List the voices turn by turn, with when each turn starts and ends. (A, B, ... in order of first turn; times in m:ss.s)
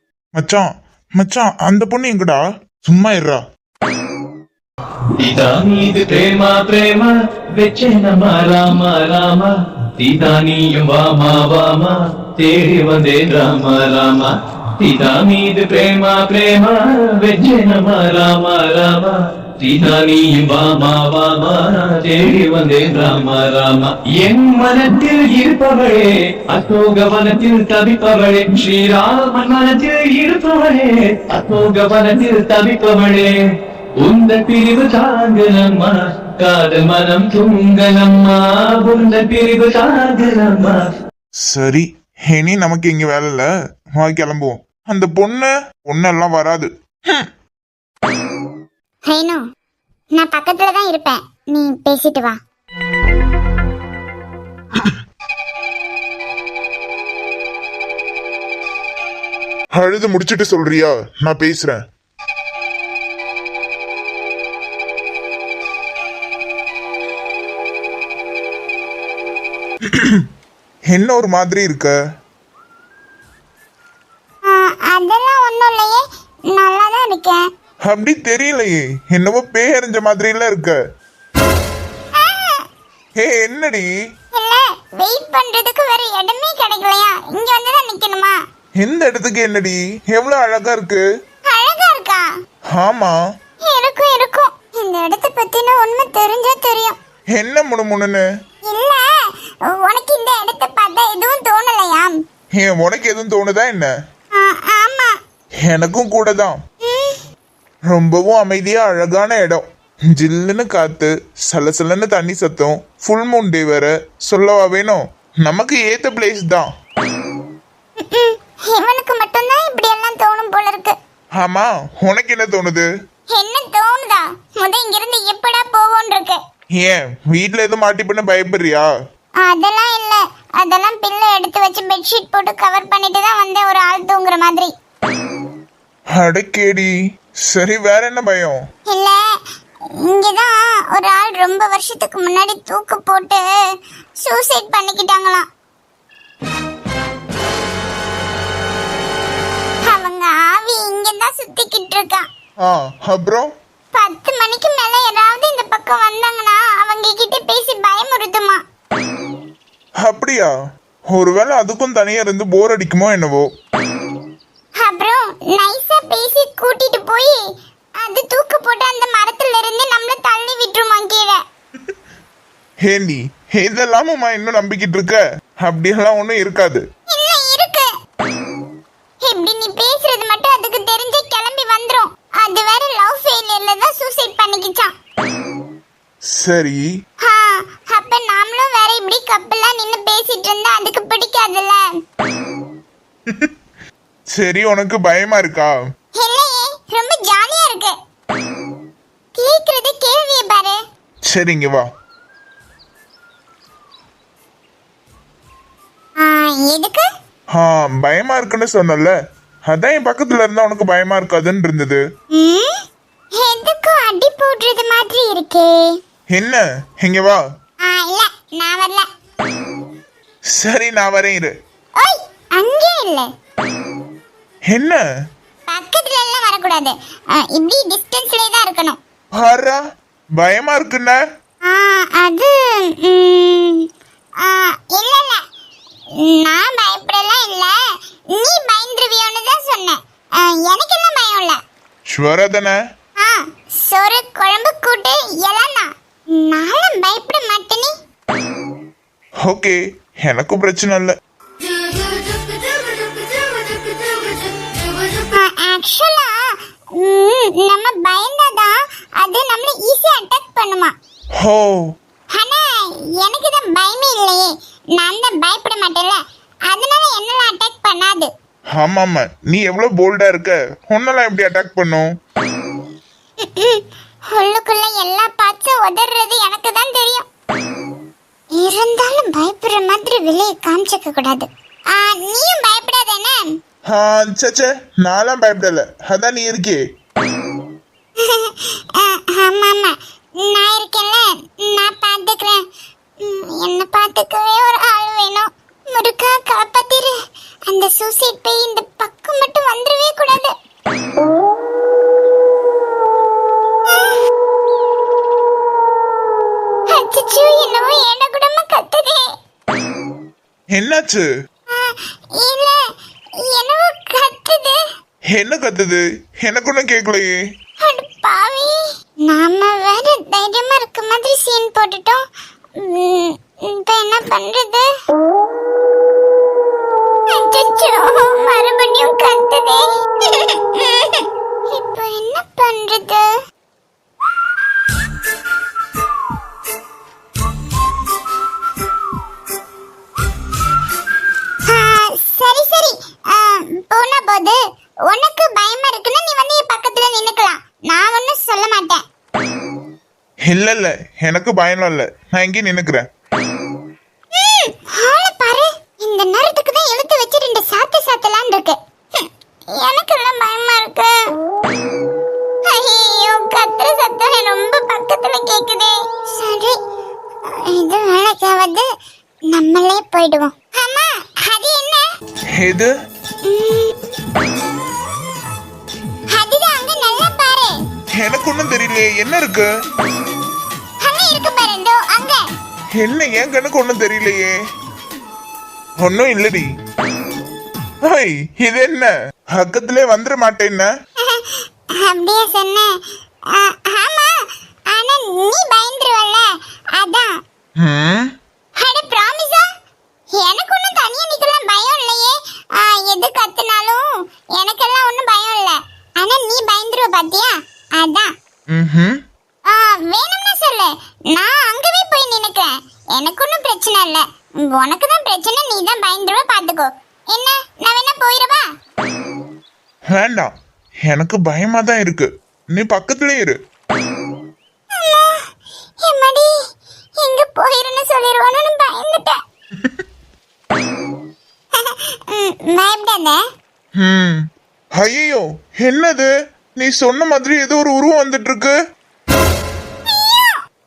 0:00.4-0:03.4 A
0:05.2-0:33.3 B
0:34.0-0:40.8 B
0:41.5-0:47.3 A
0:49.1-0:49.4 C
0:50.2-0:52.4 C
0:59.7-1:01.8 A
1:09.8-1:10.3 A
1:10.9-1:11.9 A
1:14.4-1:17.4 C
1:17.9-1:20.8 A
1:22.2-1:22.6 C
1:23.2-1:23.9 A
1:24.3-1:28.3 C
1:28.8-1:31.0 A
1:31.5-1:32.3 C
1:32.7-1:33.2 A
1:33.6-1:37.0 C
1:37.3-1:38.2 A
1:38.7-1:39.0 C
1:39.6-1:42.1 C
1:42.6-1:43.9 A
1:44.4-1:45.1 C
1:45.7-1:46.6 A
1:46.8-1:47.2 C
1:47.9-1:56.7 A
1:58.0-2:01.0 C
2:01.4-2:02.9 A
2:03.3-2:06.4 C
2:06.8-2:08.9 A
2:09.4-2:14.7 C
2:16.2-2:16.9 A
2:17.5-2:18.6 A
2:18.9-2:19.2 C
2:20.0-2:23.4 C
2:24.2-2:25.4 C
2:29.8-2:32.2 C
2:32.6-2:33.5 A
2:33.9-2:38.6 C
2:40.0-2:40.5 A
2:41.1-2:43.5 A
2:44.8-2:47.4 C
2:48.0-2:51.4 C
2:52.8-2:56.8 A
2:57.1-2:57.9 C
2:59.2-3:04.9 C
3:06.3-3:06.8 A
3:07.2-3:11.8 C
3:13.3-3:13.5 A
3:14.3-3:15.7 A
3:16.2-3:17.9 C
3:19.4-3:20.8 C
3:21.3-3:21.8 A
3:26.2-3:27.0 C
3:27.5-3:29.1 A
3:29.7-3:32.0 A
3:32.3-3:32.8 C
3:33.3-3:35.9 C
3:36.3-3:37.4 A
3:37.8-3:39.1 C
3:40.5-3:41.5 A
3:42.0-3:43.3 C
3:44.7-3:45.0 A
3:45.7-3:49.0 C
3:49.3-3:49.8 A
3:50.4-3:51.2 A
3:51.6-3:53.9 C
3:54.4-3:55.4 C
3:56.2-3:57.7 C
3:58.3-4:01.6 C
4:02.1-4:02.8 A
4:03.2-4:07.9 C
4:09.4-4:11.1 A
4:15.2-4:16.4 C
4:16.9-4:20.9 C
4:21.4-4:21.8 A
4:22.3-4:28.3 C
4:28.8-4:32.1 A
4:33.4-4:37.2 C
4:38.5-4:43.4 C
4:43.9-4:46.8 A
4:48.2-4:52.6 C
4:53.2-4:57.1 C
4:57.7-5:00.5 C
5:03.9-5:04.2 C
5:06.9-5:09.3 C
5:10.7-5:11.3 A
5:11.7-5:12.8 C
5:13.4-5:14.8 C
5:15.3-5:17.3 A
5:17.8-5:22.2 C
5:22.8-5:24.9 C
5:27.3-5:33.3 C
5:41.7-5:49.0 C
5:50.5-5:53.0 A
5:54.3-6:01.1 C
6:02.7-6:06.8 C
6:07.6-6:08.9 C
6:09.5-6:12.0 C
6:12.5-6:12.9 A
6:13.4-6:13.9 C
6:16.3-6:17.8 C
6:18.2-6:19.7 A
6:21.0-6:22.4 C
6:23.0-6:24.5 A
6:26.0-6:26.7 A
6:28.0-6:30.9 A
6:31.2-6:32.9 C
6:33.5-6:34.3 C
6:34.9-6:37.3 C
6:37.8-6:38.3 A
6:38.8-6:39.6 C
6:40.3-6:44.0 C
6:44.6-6:48.3 C
6:48.7-6:49.2 A
6:49.7-6:58.6 C
7:00.1-7:00.5 A
7:01.1-7:03.6 A
7:04.9-7:05.4 C
7:06.0-7:06.5 C
7:07.2-7:09.4 C
7:09.8-7:10.0 A
7:11.7-7:13.4 C
7:14.0-7:14.4 A
7:15.0-7:18.7 A
7:20.1-7:20.6 C